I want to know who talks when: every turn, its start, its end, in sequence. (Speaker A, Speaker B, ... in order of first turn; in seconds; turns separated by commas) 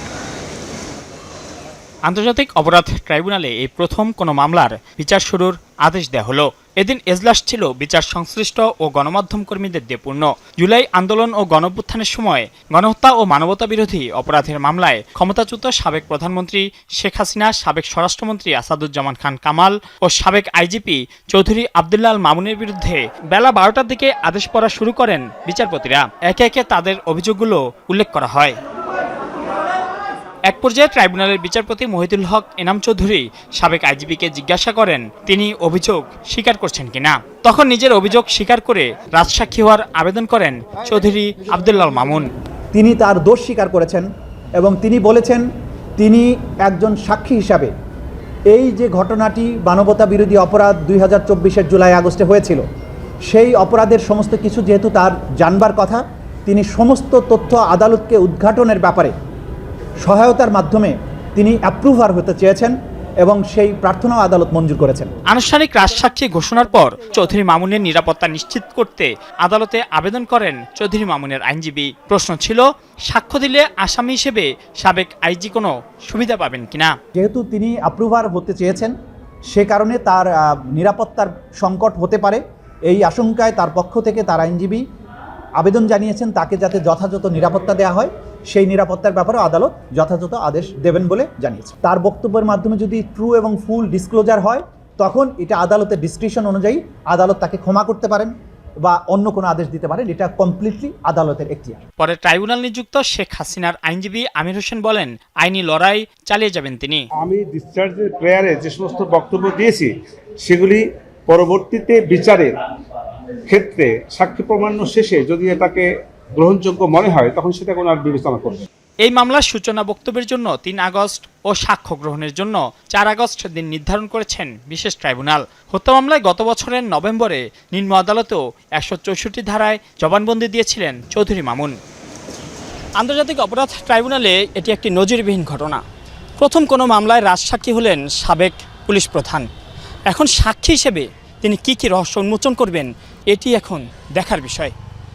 Speaker A: 2.1-28.6, Speaker A: 30.5-42.3, Speaker B: 42.7-44.1, Speaker B: 44.6-45.4, Speaker B: 46.0-47.7, Speaker B: 48.5-52.6, Speaker B: 53.3-59.1, Speaker B: 60.0-65.1, Speaker A: 65.3-77.0, Speaker B: 77.2-78.9, Speaker B: 79.5-84.8, Speaker B: 85.6-98.3, Speaker B: 98.8-101.8, Speaker A: 102.0-107.0, Speaker C: 107.2-109.9, Speaker C: 110.4-112.5, Speaker C: 113.5-118.7, Speaker A: 119.0-131.8, Speaker A: 133.0-135.8, Speaker A: 136.4-139.5, Speaker A: 140.1-144.7